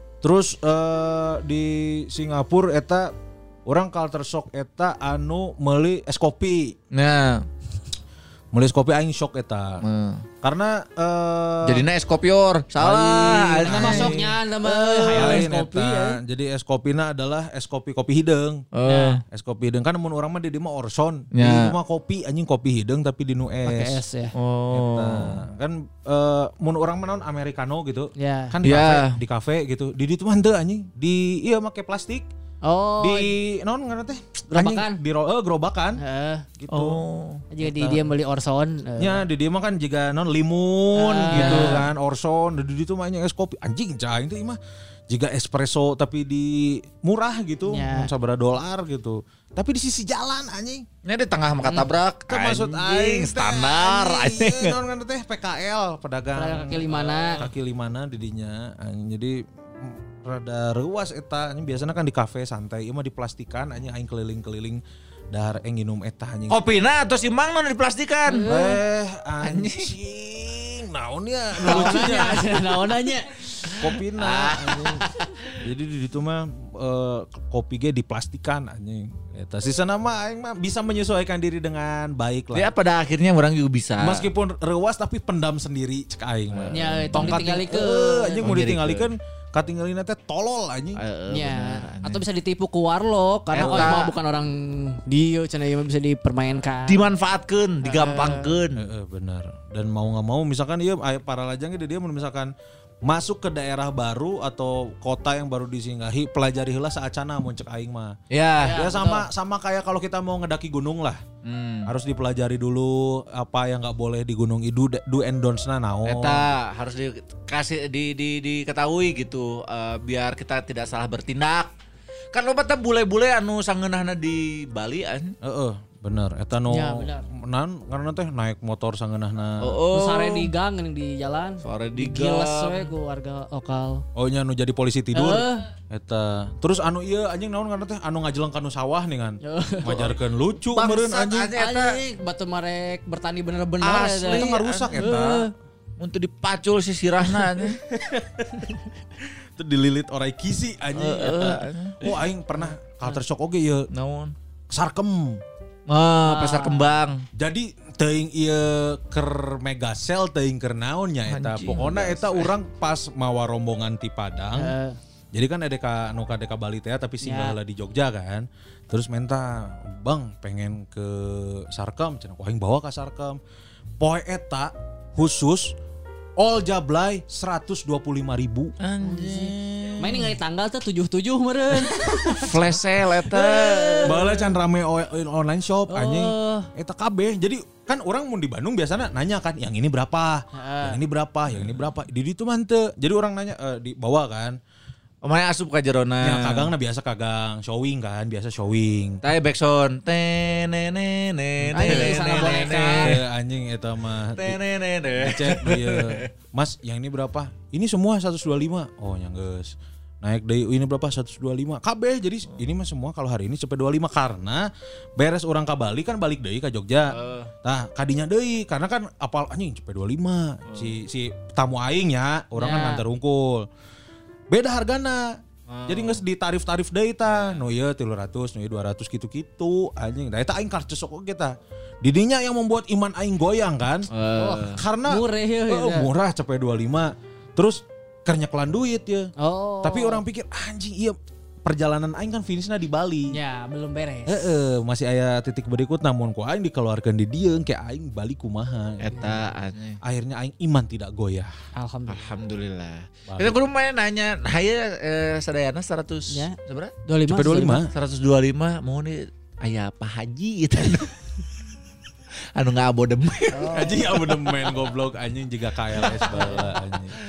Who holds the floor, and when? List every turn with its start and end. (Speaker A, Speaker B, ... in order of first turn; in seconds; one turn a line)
Speaker A: 0.2-3.1
Speaker A: 3.7-6.8
Speaker B: 6.9-7.5
Speaker A: 8.5-9.8
Speaker B: 9.8-10.2
Speaker A: 10.4-11.8
Speaker B: 11.7-15.5
Speaker A: 12.8-14.4
Speaker C: 13.7-16.2
Speaker A: 15.1-18.6
Speaker B: 18.7-19.2
Speaker C: 18.9-19.2
Speaker A: 19.3-24.0
Speaker B: 21.3-21.8
Speaker C: 23.6-24.3
Speaker B: 24.4-25.5
Speaker A: 24.7-32.3
Speaker C: 28.2-28.6
Speaker B: 28.6-29.1
Speaker C: 32.6-33.3
Speaker A: 33.0-36.0
Speaker C: 34.5-35.0
Speaker C: 36.0-36.4
Speaker A: 36.6-37.0
Speaker B: 36.7-37.4
Speaker C: 37.5-39.2
Speaker A: 37.6-38.1
Speaker A: 39.0-50.8
Speaker C: 41.0-41.9
Speaker B: 41.3-41.8
Speaker C: 47.7-48.1
Speaker B: 51.0-54.8
Speaker C: 51.6-51.9
Speaker A: 52.3-64.8
Speaker C: 56.4-57.4
Speaker A: 65.3-66.6
Speaker B: 66.5-68.5
Speaker C: 68.3-68.8
Speaker A: 68.5-72.6
Speaker B: 69.4-69.9
Speaker B: 71.6-72.4
Speaker C: 71.6-73.4
Speaker B: 73.7-75.3
Speaker A: 73.8-75.0
Speaker A: 75.6-82.7
Speaker B: 82.5-84.3
Speaker A: 84.0-91.0
Speaker B: 86.5-87.5
Speaker C: 86.7-88.5
Speaker B: 88.4-89.1
Speaker B: 91.0-92.2
Speaker C: 91.3-97.1
Speaker B: 93.5-94.1
Speaker A: 93.6-94.0
Speaker B: 96.9-98.8
Speaker C: 97.8-98.6
Speaker A: 98.8-102.5
Speaker A: 103.0-108.2
Speaker B: 108.3-108.9
Speaker C: 108.6-109.3
Speaker A: 108.7-111.2
Speaker B: 111.4-111.9
Speaker A: 111.9-116.4
Speaker B: 116.0-121.7
Speaker B: 122.3-125.4
Speaker A: 125.4-129.8
Speaker C: 126.7-127.2
Speaker B: 129.6-130.5
Speaker C: 129.9-134.0
Speaker B: 131.6-132.9
Speaker A: 134.2-141.5
Speaker C: 135.1-135.6
Speaker C: 139.4-140.2
Speaker B: 140.7-142.0
Speaker C: 141.5-145.5
Speaker B: 143.8-145.3
Speaker A: 144.2-145.4
Speaker B: 146.0-147.8
Speaker A: 147.9-148.6
Speaker A: 149.6-153.9
Speaker B: 150.9-152.2
Speaker C: 152.6-153.2
Speaker B: 153.9-154.3
Speaker A: 154.7-155.4
Speaker B: 155.9-157.3
Speaker C: 156.3-156.9
Speaker A: 157.3-164.7
Speaker B: 161.3-162.5
Speaker C: 164.6-165.0
Speaker A: 165.3-173.4
Speaker C: 167.2-167.6
Speaker A: 174.0-175.8
Speaker A: 176.4-178.7
Speaker B: 178.8-180.3
Speaker C: 179.0-182.4
Speaker A: 181.9-182.7
Speaker B: 182.3-184.2
Speaker C: 183.4-184.5
Speaker A: 184.0-194.6
Speaker C: 185.9-186.7
Speaker C: 190.5-191.0
Speaker B: 195.2-196.7
Speaker A: 196.2-199.2
Speaker B: 199.2-203.2
Speaker A: 201.6-204.6
Speaker C: 201.7-203.1
Speaker B: 204.4-206.3
Speaker A: 205.2-214.7
Speaker A: 215.2-223.7
Speaker B: 217.1-217.5
Speaker B: 220.7-221.0
Speaker C: 222.6-223.0
Speaker A: 224.5-234.1
Speaker B: 225.7-226.2
Speaker B: 227.3-227.6
Speaker B: 234.1-234.8
Speaker C: 234.4-236.1
Speaker A: 234.8-239.3
Speaker C: 239.4-240.2
Speaker A: 239.8-243.4
Speaker C: 243.3-244.5
Speaker A: 244.3-249.4
Speaker B: 249.0-250.0
Speaker A: 250.0-251.5
Speaker C: 251.8-252.4
Speaker B: 252.1-256.9
Speaker A: 253.3-253.6
Speaker C: 256.3-257.8
Speaker A: 257.3-257.9
Speaker B: 257.9-261.1
Speaker B: 262.6-264.6
Speaker C: 263.5-264.1
Speaker A: 263.7-267.2
Speaker B: 265.9-266.6
Speaker C: 266.2-266.7